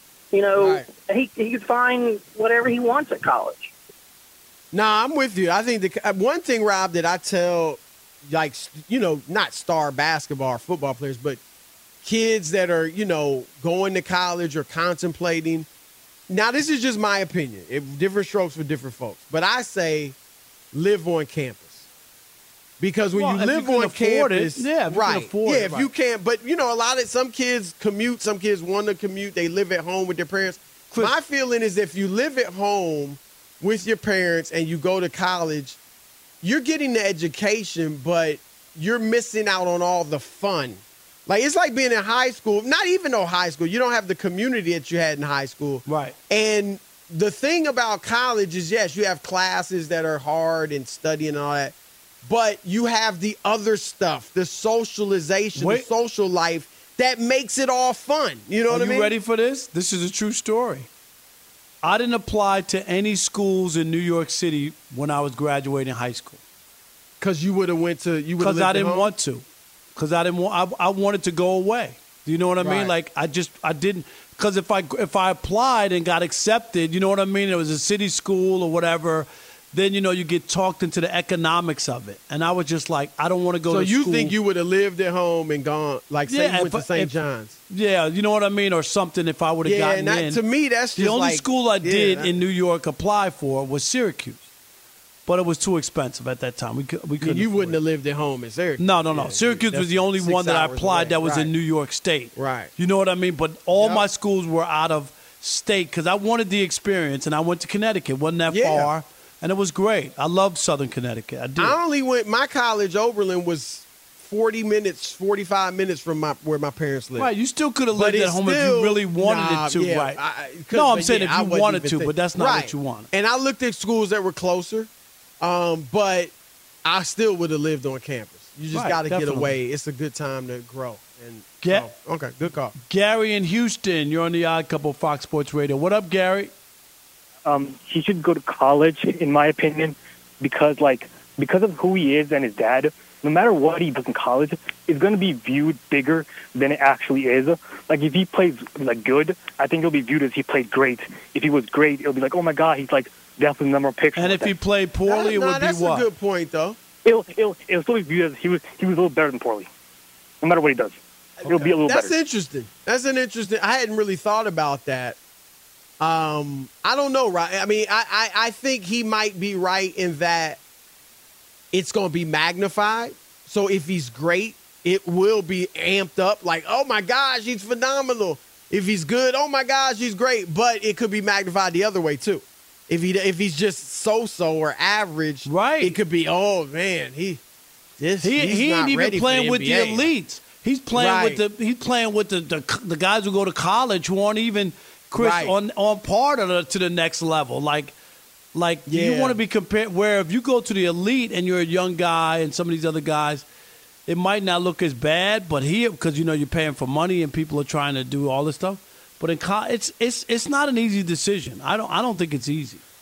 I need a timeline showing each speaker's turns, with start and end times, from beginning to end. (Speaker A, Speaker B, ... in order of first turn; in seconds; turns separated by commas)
Speaker A: 0.3-3.7, Speaker B: 0.6-0.8, Speaker B: 4.7-11.4, Speaker B: 12.0-15.7, Speaker B: 16.3-20.2, Speaker B: 20.7-21.9, Speaker B: 22.8-35.8, Speaker C: 23.1-25.9, Speaker B: 36.4-59.1, Speaker C: 45.9-46.1, Speaker C: 55.5-55.9, Speaker C: 58.7-60.9, Speaker C: 61.8-66.4, Speaker B: 67.2-69.1, Speaker C: 68.4-69.5, Speaker C: 70.0-84.3, Speaker B: 72.6-72.9, Speaker B: 83.7-87.6, Speaker C: 86.3-87.2, Speaker C: 87.7-90.4, Speaker B: 89.6-92.3, Speaker C: 91.0-94.5, Speaker C: 95.3-97.8, Speaker B: 97.2-101.5, Speaker C: 98.8-111.8, Speaker B: 102.3-102.7, Speaker B: 103.8-104.0, Speaker B: 108.5-108.9, Speaker B: 111.6-117.3, Speaker C: 117.2-120.2, Speaker B: 117.9-124.9, Speaker C: 120.7-123.1, Speaker B: 125.4-126.3, Speaker B: 126.8-132.8, Speaker C: 128.7-129.6, Speaker C: 131.6-131.9, Speaker C: 132.9-136.5, Speaker D: 137.5-154.6, Speaker C: 154.2-156.1, Speaker B: 155.1-156.8, Speaker D: 157.1-159.7, Speaker D: 160.4-162.2, Speaker B: 161.4-165.2, Speaker B: 166.0-170.6, Speaker B: 171.7-187.4, Speaker C: 185.5-186.0, Speaker B: 188.0-190.1, Speaker C: 188.2-197.9, Speaker B: 190.9-191.4, Speaker B: 195.2-195.5, Speaker C: 198.5-203.4, Speaker B: 198.9-199.4, Speaker C: 204.1-212.8